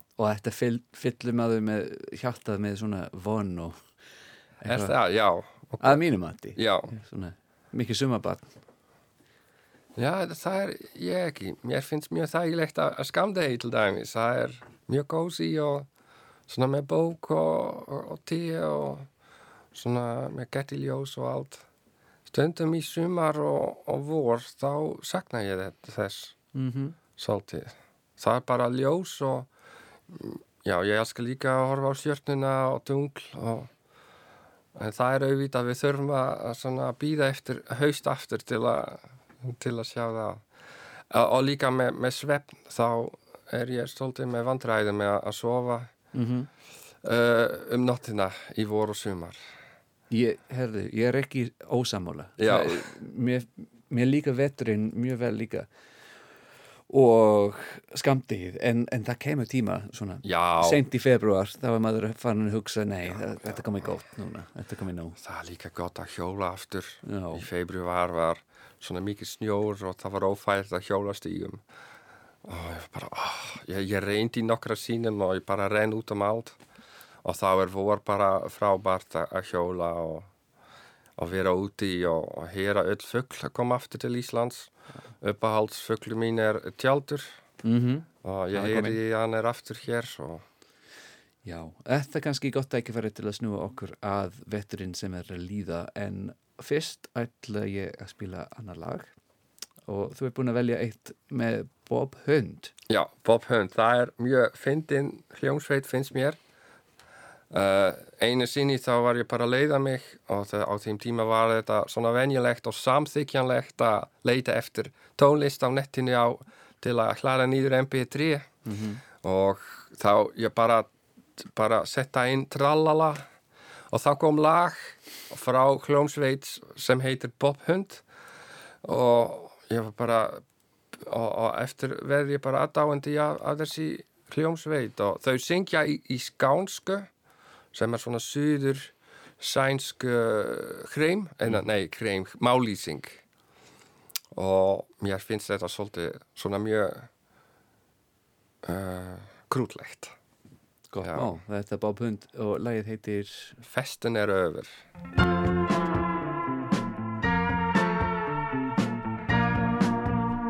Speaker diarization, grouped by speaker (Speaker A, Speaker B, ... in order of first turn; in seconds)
Speaker A: 0.2-3.8, 4.6-4.9, 5.8-8.5, 26.5-27.0, 46.1-46.5, 50.1-55.7, 56.9-65.2, 67.0-67.5, 87.6-89.0, 91.4-99.1, 99.9-102.7, 118.7-119.0, 150.9-153.6
Speaker B: 4.7-6.0, 6.6-6.9, 10.0-15.9, 16.5-19.1, 19.7-21.6, 22.3-26.4, 27.2-29.5, 30.1-33.7, 34.8-40.4, 41.1-45.9, 47.0-49.4, 52.4-52.9, 60.2-60.8, 63.1-63.6, 65.2-71.6, 72.4-76.6, 77.2-80.3, 81.2-87.4, 88.2-90.5, 102.9-106.4, 107.5-118.5, 119.2-123.3, 123.9-128.0, 128.8-130.4, 131.0-137.1, 137.7-143.2, 144.3-147.1, 148.6-150.1, 151.0-151.3, 153.7-154.7